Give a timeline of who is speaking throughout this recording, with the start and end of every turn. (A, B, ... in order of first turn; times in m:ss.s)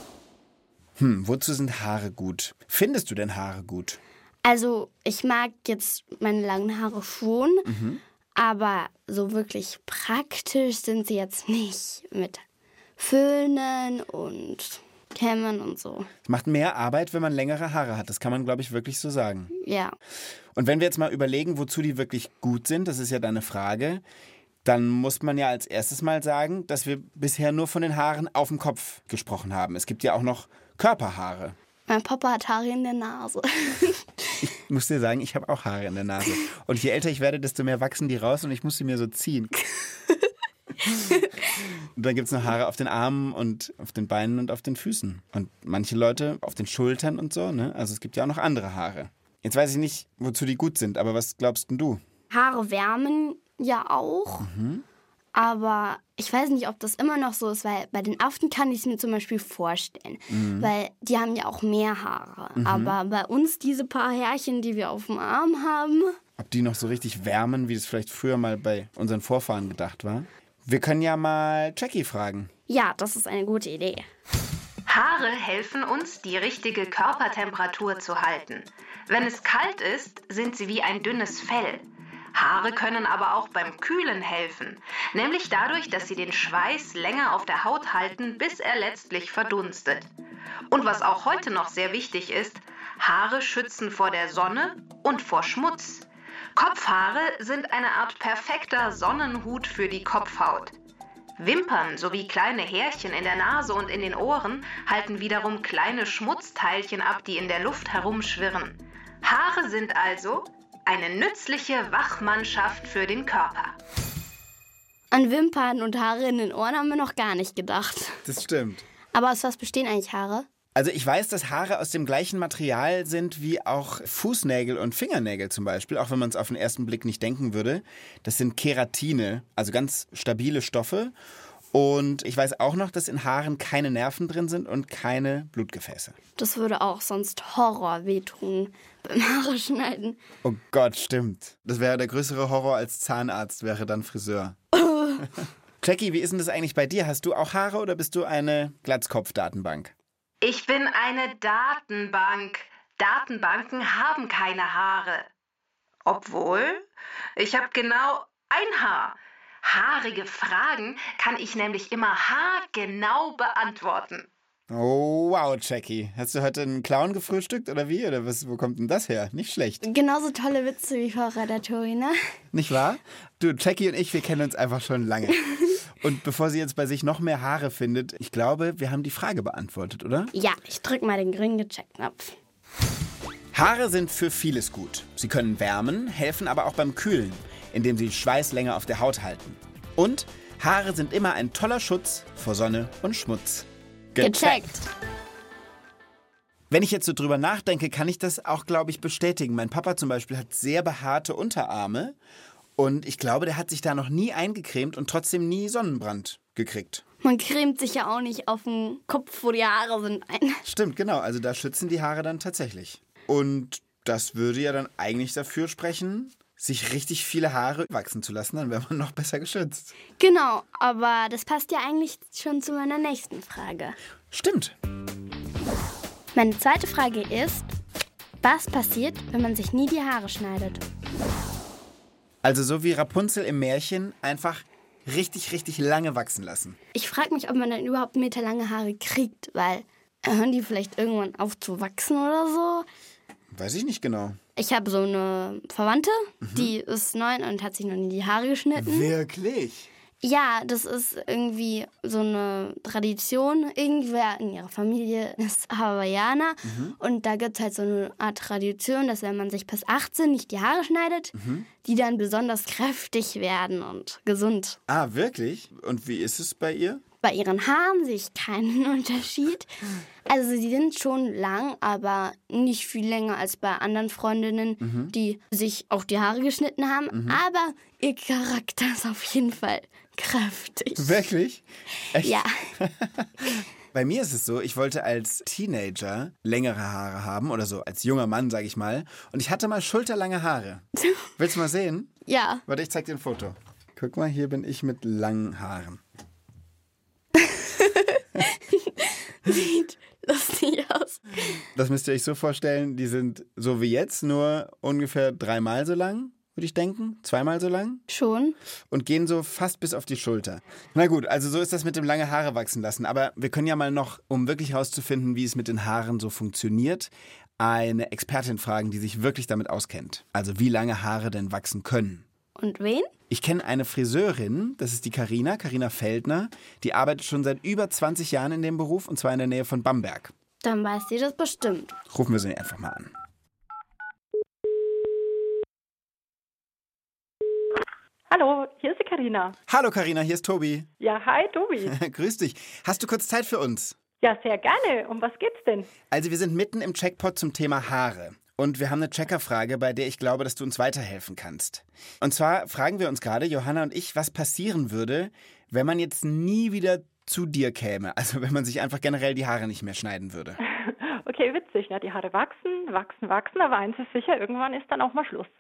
0:01.0-0:04.0 A
0:04.4-0:07.7 B
0:07.7-0:08.0 A
0:08.4-0:12.4 B
0:13.0-0:16.1 B
0:16.2-0:19.5 A
0:19.5-0:20.0 B
0:20.6-0:24.0 A
0:24.6-0:31.6 A
0:31.9-0:34.1 B
0:34.4-0:39.6 A
0:42.0-0:52.0 A
0:52.3-0:54.5 B
0:54.4-0:54.8 A
0:55.3-1:06.2 B
1:00.3-1:00.7 A
1:02.6-1:03.0 A
1:06.4-1:12.5 A
1:12.7-1:14.1 B
1:14.9-1:30.1 C
1:30.7-1:40.7 C
1:41.4-1:53.8 C
1:55.1-1:58.2 B
1:58.2-1:58.9 A
1:59.1-2:00.5 B
2:00.8-2:11.1 A
2:11.7-2:16.2 A
2:16.4-2:20.2 B
2:20.4-2:24.6 A
2:24.7-2:25.2 B
2:25.8-2:29.9 A
2:30.4-2:35.3 C
2:36.1-2:36.8 C
2:37.4-2:44.3 C
2:44.7-2:49.8 A
2:49.8-2:52.2 B
2:52.5-3:00.3 A
3:00.3-3:02.4 B
3:03.5-3:14.7 A
3:14.2-3:14.9 B
3:16.7-3:22.2 A
3:22.8-3:27.0 A
3:27.2-3:30.6 B
3:30.6-3:40.0 A
3:40.2-3:44.0 B
3:44.3-3:44.8 A
3:46.4-3:47.7 B
3:48.4-3:50.8 B
3:52.4-3:56.8 A
3:56.9-4:02.9 B
4:03.5-4:04.4 A
4:04.6-4:09.1 B
4:06.4-4:06.7 A
4:08.8-4:09.9 A
4:10.2-4:24.8 B
4:16.6-4:17.0 A
4:21.4-4:21.7 A
4:24.9-4:27.0 A
4:27.2-4:29.7 B
4:30.3-4:41.2 B
4:34.8-4:35.1 A
4:37.1-4:37.4 A
4:41.0-4:50.8 A
4:42.2-4:42.7 B
4:51.0-4:51.3 B
4:51.4-4:52.1 A
4:52.3-4:52.6 B
4:52.7-4:56.0 A
4:57.4-5:01.6 B
5:01.8-5:08.0 A
5:08.1-5:08.6 B
5:08.9-5:22.2 A
5:22.6-5:23.1 B
5:23.3-5:30.3 A
5:30.6-5:32.0 B
5:32.1-5:33.1 A
5:38.3-5:39.6 D
5:39.7-5:40.9 A
5:41.0-5:42.0 D
5:41.8-5:44.0 A
5:44.2-5:45.9 D
5:46.1-6:00.6 A
6:00.7-6:05.5 D